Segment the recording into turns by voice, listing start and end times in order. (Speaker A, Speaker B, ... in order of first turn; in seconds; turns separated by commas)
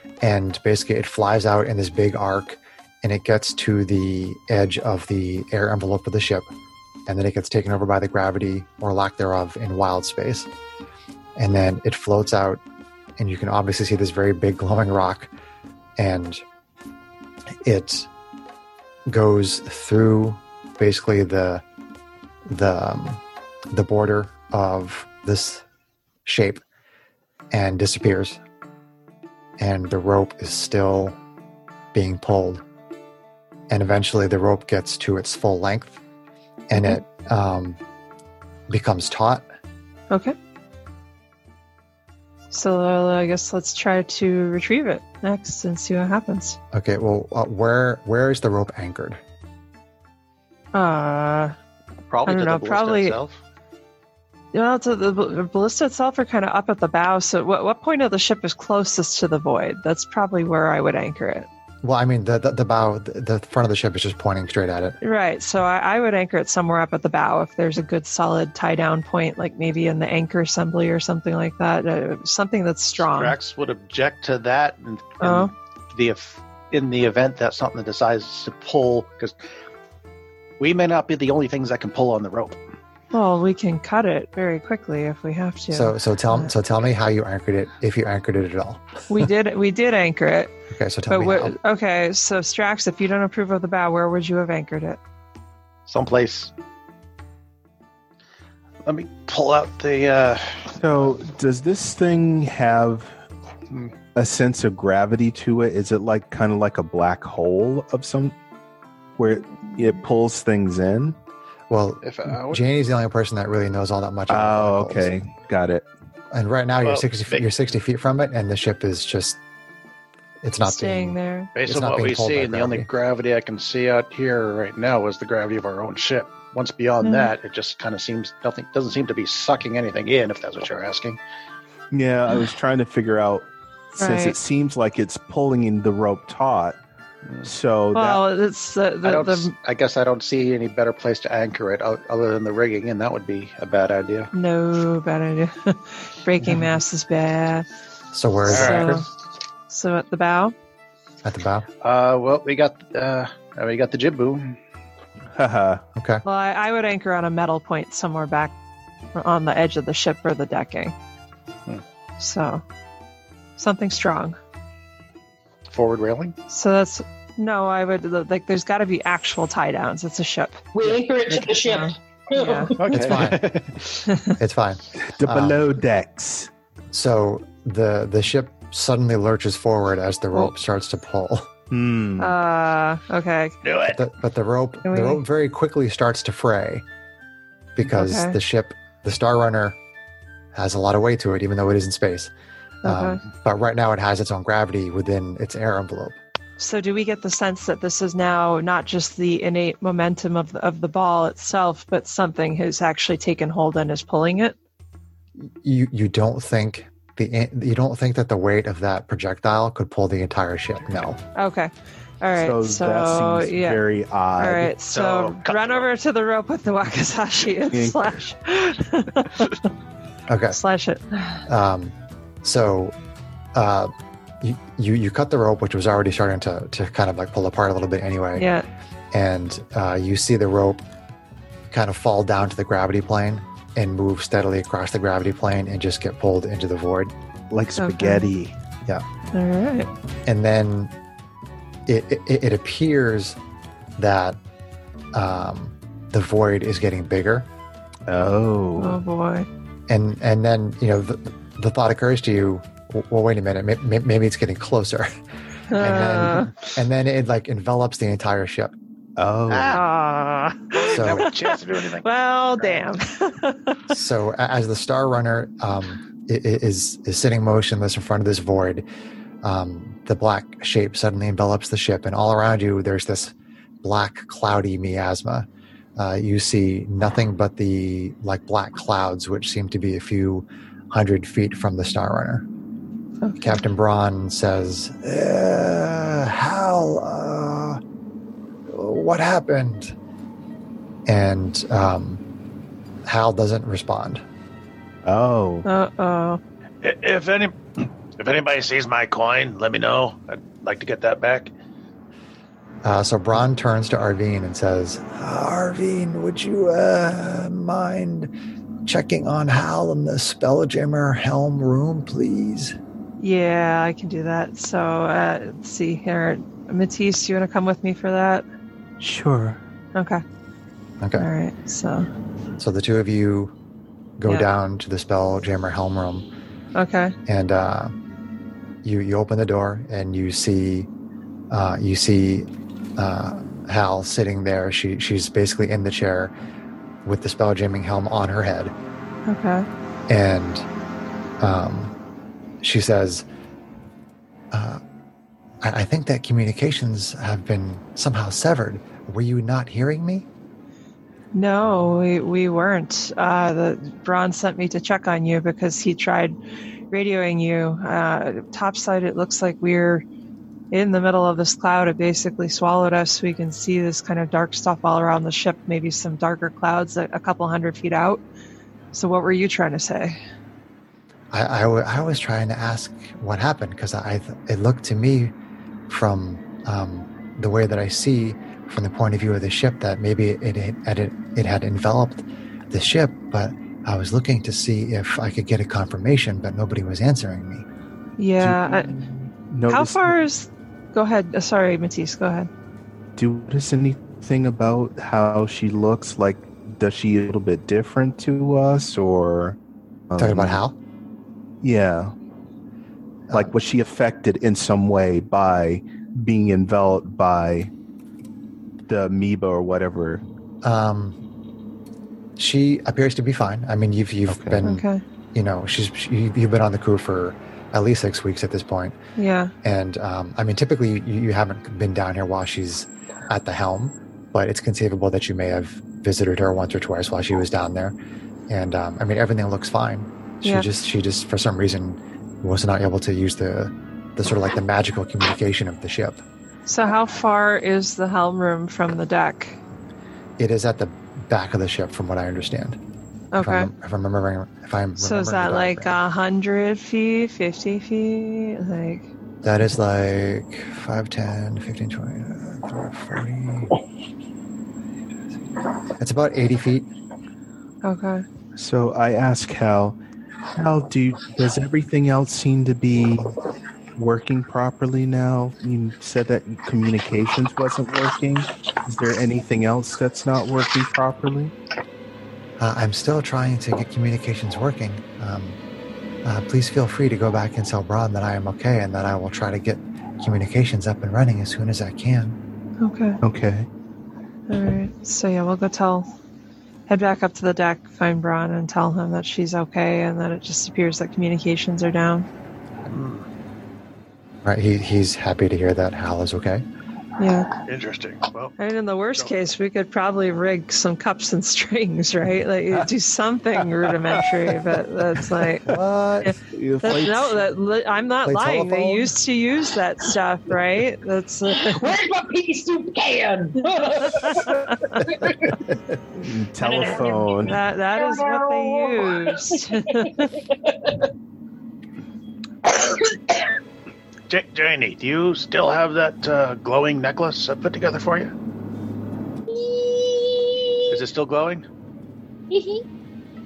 Speaker A: 0.2-6.5, Speaker A: 7.1-10.5, Speaker A: 11.4-12.6, Speaker A: 13.2-15.3, Speaker A: 16.0-16.4, Speaker A: 17.6-18.1, Speaker A: 19.1-21.6, Speaker A: 22.5-23.2, Speaker A: 23.7-25.6, Speaker A: 26.2-26.6, Speaker A: 27.5-28.4, Speaker A: 29.6-31.2, Speaker A: 31.9-32.6, Speaker A: 33.7-36.0, Speaker A: 36.7-37.8, Speaker B: 36.8-37.0, Speaker A: 38.7-39.5, Speaker B: 42.5-46.6, Speaker A: 46.7-49.2, Speaker B: 50.7-51.6, Speaker C: 52.1-53.4, Speaker B: 52.3-53.2, Speaker B: 54.5-61.5, Speaker A: 61.8-65.0, Speaker B: 65.0-73.4, Speaker C: 73.0-79.4, Speaker B: 75.2-75.5, Speaker C: 80.6-82.6, Speaker B: 83.1-86.5, Speaker A: 85.7-88.8, Speaker B: 89.1-90.5, Speaker A: 90.7-91.5, Speaker B: 91.1-95.0, Speaker C: 95.9-96.5, Speaker C: 98.8-100.8, Speaker D: 100.8-103.1, Speaker D: 104.2-108.4, Speaker D: 109.2-111.2, Speaker A: 111.7-115.1, Speaker C: 112.0-112.6, Speaker D: 114.3-115.8, Speaker A: 116.3-119.4, Speaker C: 116.8-117.5, Speaker A: 120.4-122.9, Speaker B: 120.6-121.5, Speaker C: 121.6-131.2, Speaker B: 127.0-127.3, Speaker D: 131.9-136.8, Speaker B: 134.0-134.4, Speaker D: 137.4-138.2, Speaker B: 137.9-139.5, Speaker C: 139.0-144.3, Speaker B: 144.3-147.7, Speaker A: 148.1-149.0, Speaker B: 148.5-149.1, Speaker C: 148.5-149.0, Speaker B: 149.7-150.5, Speaker A: 151.2-151.7, Speaker C: 151.8-154.6, Speaker D: 155.3-155.8, Speaker A: 156.0-156.2, Speaker B: 156.2-158.5, Speaker B: 159.2-160.9, Speaker B: 162.2-162.6, Speaker B: 163.6-164.4, Speaker C: 165.7-166.4, Speaker B: 166.5-170.6, Speaker E: 170.7-172.9, Speaker B: 171.4-172.8, Speaker C: 172.8-174.1, Speaker A: 172.9-173.5, Speaker B: 174.1-174.4, Speaker A: 174.4-175.7, Speaker D: 175.0-176.5, Speaker A: 176.9-181.5, Speaker D: 181.7-182.3, Speaker B: 182.2-183.6, Speaker C: 183.6-184.0, Speaker A: 183.9-186.8, Speaker B: 184.8-185.2, Speaker A: 187.8-189.8, Speaker B: 187.9-188.4, Speaker A: 190.5-192.3, Speaker A: 192.8-196.2, Speaker B: 192.8-193.2, Speaker B: 196.6-204.6, Speaker A: 205.4-211.2, Speaker B: 211.3-213.8, Speaker D: 212.4-214.8, Speaker B: 214.4-219.6, Speaker C: 214.9-215.9, Speaker D: 217.7-218.2, Speaker A: 220.3-220.6, Speaker B: 220.5-221.4, Speaker A: 221.5-222.9, Speaker A: 223.5-228.5, Speaker B: 228.3-228.7, Speaker A: 229.1-230.8, Speaker A: 231.7-237.1, Speaker D: 237.5-238.5, Speaker B: 237.8-238.3, Speaker B: 239.3-239.9, Speaker A: 240.3-240.9, Speaker A: 241.9-243.4, Speaker A: 244.0-244.4, Speaker A: 245.1-247.5, Speaker D: 248.1-249.0, Speaker B: 248.8-249.5, Speaker A: 249.9-255.1, Speaker B: 255.7-256.5, Speaker A: 255.7-258.8, Speaker D: 259.2-259.8, Speaker C: 259.5-259.8, Speaker B: 259.7-263.8, Speaker C: 260.7-262.9, Speaker A: 260.9-261.3, Speaker A: 263.9-268.9, Speaker A: 269.4-282.4, Speaker B: 283.2-283.6, Speaker A: 283.4-287.8, Speaker A: 288.7-289.9, Speaker A: 291.1-292.2, Speaker A: 293.1-294.2, Speaker D: 295.1-295.7, Speaker B: 295.6-296.4, Speaker C: 296.8-301.5, Speaker A: 302.8-308.3, Speaker A: 308.9-312.8, Speaker B: 313.2-318.4, Speaker D: 319.0-319.6, Speaker B: 319.9-320.2, Speaker A: 321.0-321.3, Speaker B: 321.1-322.1, Speaker A: 322.6-323.5, Speaker A: 324.2-326.3, Speaker B: 326.8-327.2, Speaker A: 327.3-327.9, Speaker A: 328.8-330.9, Speaker A: 331.5-336.3, Speaker A: 337.0-338.7, Speaker B: 339.3-339.7, Speaker A: 340.1-340.7, Speaker A: 341.4-341.9, Speaker A: 342.6-343.2, Speaker A: 344.5-344.8, Speaker A: 345.6-350.3, Speaker B: 351.3-356.4, Speaker B: 356.9-360.0, Speaker B: 360.7-368.2, Speaker B: 368.9-370.2, Speaker A: 371.3-375.3, Speaker A: 375.9-387.7, Speaker B: 388.2-388.9, Speaker D: 388.4-390.2, Speaker B: 389.7-392.5, Speaker D: 393.2-399.6, Speaker D: 400.1-400.6, Speaker A: 400.2-400.8, Speaker D: 401.6-402.1, Speaker D: 403.3-407.7, Speaker D: 408.9-410.2, Speaker A: 410.6-411.2, Speaker A: 412.4-419.0, Speaker D: 414.3-414.6, Speaker B: 414.6-415.0, Speaker B: 419.2-419.5, Speaker A: 419.6-428.0, Speaker A: 428.5-436.2, Speaker B: 436.7-439.6, Speaker A: 440.4-442.8, Speaker B: 443.3-443.7, Speaker A: 443.4-446.0, Speaker B: 445.0-449.1, Speaker A: 449.4-453.8, Speaker A: 456.0-456.9, Speaker B: 457.8-458.2, Speaker D: 458.6-460.0, Speaker D: 460.6-463.3, Speaker D: 464.0-471.6, Speaker A: 472.6-475.6, Speaker A: 476.2-482.4, Speaker B: 482.8-483.2, Speaker D: 483.2-483.7, Speaker B: 484.5-486.1, Speaker B: 486.9-492.3, Speaker C: 492.9-493.3, Speaker A: 494.4-496.7, Speaker B: 497.2-497.5, Speaker C: 497.7-498.5, Speaker B: 498.6-505.7, Speaker A: 505.6-506.4, Speaker B: 506.2-512.0, Speaker D: 506.4-507.5, Speaker A: 508.2-509.1, Speaker E: 511.5-515.6, Speaker B: 514.1-515.0, Speaker D: 516.2-517.6, Speaker E: 516.6-521.1, Speaker B: 517.4-520.3, Speaker E: 522.6-523.4, Speaker C: 524.3-528.3, Speaker E: 529.5-530.9, Speaker C: 530.9-531.7, Speaker E: 532.5-532.8